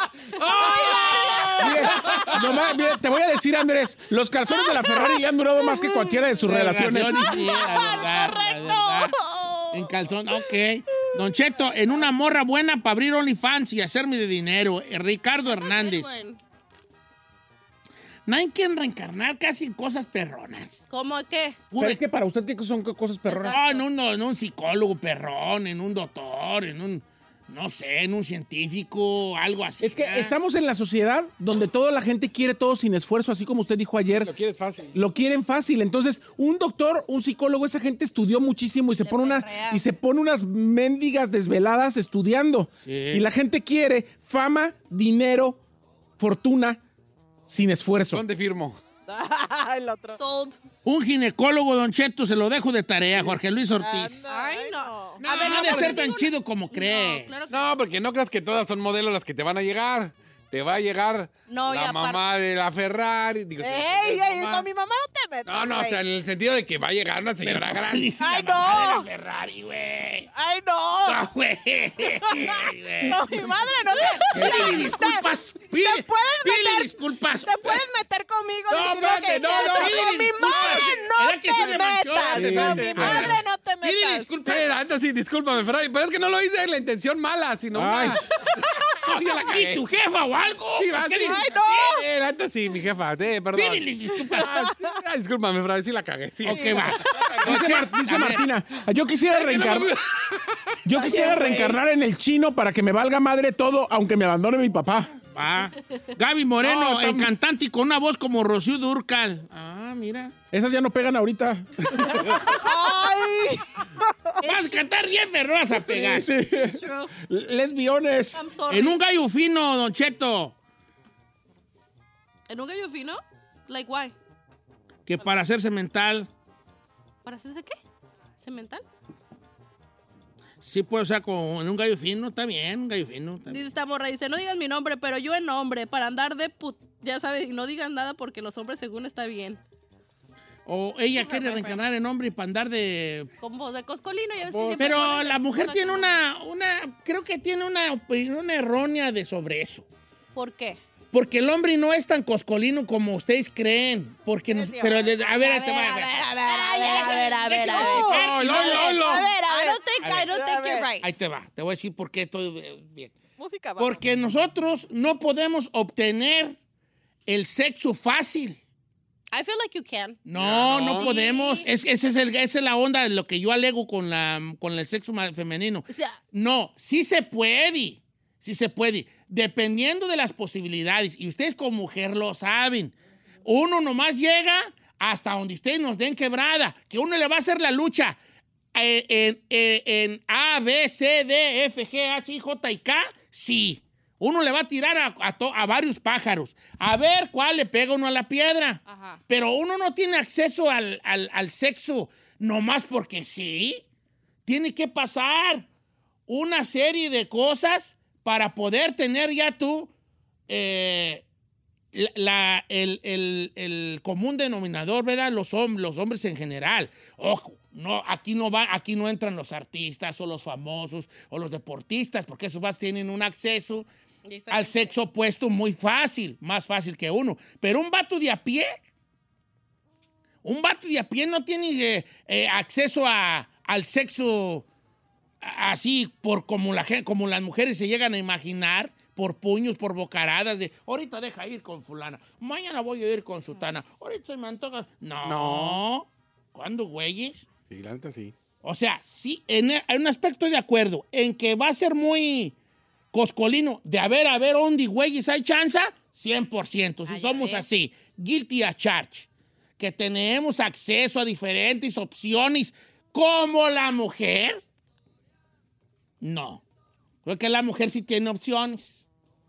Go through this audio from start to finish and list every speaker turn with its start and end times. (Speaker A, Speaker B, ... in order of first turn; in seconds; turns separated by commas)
Speaker A: 0.4-2.3, Speaker B: 0.5-2.6, Speaker C: 0.6-1.1, Speaker D: 0.8-1.2, Speaker E: 1.6-7.4, Speaker D: 4.6-6.2, Speaker A: 6.4-9.2, Speaker D: 7.2-9.4, Speaker C: 7.4-9.7, Speaker A: 9.7-16.2, Speaker C: 15.5-16.4, Speaker A: 18.3-20.8, Speaker C: 20.9-21.6, Speaker A: 21.7-22.0, Speaker E: 21.8-23.6, Speaker C: 23.3-23.8, Speaker A: 23.4-30.4, Speaker E: 29.8-34.3, Speaker B: 34.2-35.0, Speaker E: 34.9-45.6, Speaker C: 39.0-39.9, Speaker A: 42.9-43.3, Speaker E: 46.2-46.8, Speaker E: 47.5-48.2, Speaker B: 48.1-48.8, Speaker D: 49.1-50.2, Speaker C: 50.1-50.6, Speaker A: 50.9-54.3, Speaker D: 53.8-55.2, Speaker C: 54.3-57.6, Speaker B: 55.2-56.0, Speaker A: 55.3-57.4, Speaker B: 57.5-64.7, Speaker C: 61.5-62.2, Speaker D: 63.6-66.0, Speaker B: 65.5-68.1, Speaker A: 67.4-70.3, Speaker D: 68.2-69.1, Speaker D: 70.3-71.2, Speaker A: 71.0-73.5, Speaker D: 72.2-84.3, Speaker A: 74.3-77.8, Speaker A: 78.7-84.7, Speaker B: 78.7-80.9, Speaker E: 82.3-83.3, Speaker B: 82.5-83.4, Speaker B: 84.4-88.2, Speaker E: 87.7-88.2, Speaker B: 89.0-89.8, Speaker A: 89.5-92.0, Speaker B: 90.8-97.8, Speaker D: 91.2-92.0, Speaker A: 93.5-94.6, Speaker D: 94.3-94.9, Speaker A: 96.4-98.4, Speaker D: 96.5-97.1, Speaker E: 97.5-99.9, Speaker B: 99.3-100.3, Speaker E: 100.8-105.1, Speaker D: 101.0-101.8, Speaker B: 101.0-101.7, Speaker A: 105.3-110.3, Speaker E: 106.6-107.3, Speaker E: 110.5-112.1, Speaker D: 112.2-114.0, Speaker C: 114.4-114.8, Speaker A: 114.4-116.3, Speaker E: 115.7-118.4, Speaker C: 116.5-117.1, Speaker C: 118.3-119.0, Speaker A: 118.7-120.5, Speaker C: 122.5-124.1, Speaker A: 125.1-126.3, Speaker C: 127.2-127.8, Speaker C: 128.4-128.8, Speaker A: 130.6-133.6, Speaker C: 133.5-139.6, Speaker A: 140.7-143.3, Speaker C: 141.2-141.8, Speaker C: 143.4-146.2, Speaker B: 144.4-145.1, Speaker A: 144.8-149.9, Speaker C: 150.3-150.8, Speaker A: 151.1-159.2, Speaker D: 154.5-155.1, Speaker C: 155.0-161.1, Speaker D: 157.8-160.9, Speaker B: 157.9-159.3, Speaker A: 160.0-160.3, Speaker A: 161.0-163.1, Speaker D: 163.4-164.0, Speaker A: 163.8-166.6, Speaker A: 167.3-168.6, Speaker C: 169.3-170.2, Speaker A: 170.3-182.9, Speaker B: 170.3-171.1, Speaker C: 170.8-171.7, Speaker C: 175.9-176.2, Speaker A: 183.4-188.2, Speaker A: 188.7-203.8, Speaker C: 198.9-199.2, Speaker A: 204.5-205.7, Speaker A: 206.3-209.9, Speaker A: 210.5-211.2, Speaker A: 211.9-223.9, Speaker C: 224.2-224.9, Speaker A: 224.5-228.8, Speaker A: 230.4-234.7, Speaker A: 235.4-247.5, Speaker B: 245.2-245.8, Speaker B: 247.7-248.3, Speaker A: 248.6-252.6, Speaker A: 253.1-259.3, Speaker C: 257.1-257.7, Speaker A: 259.8-264.6, Speaker A: 266.2-266.6, Speaker A: 267.2-269.1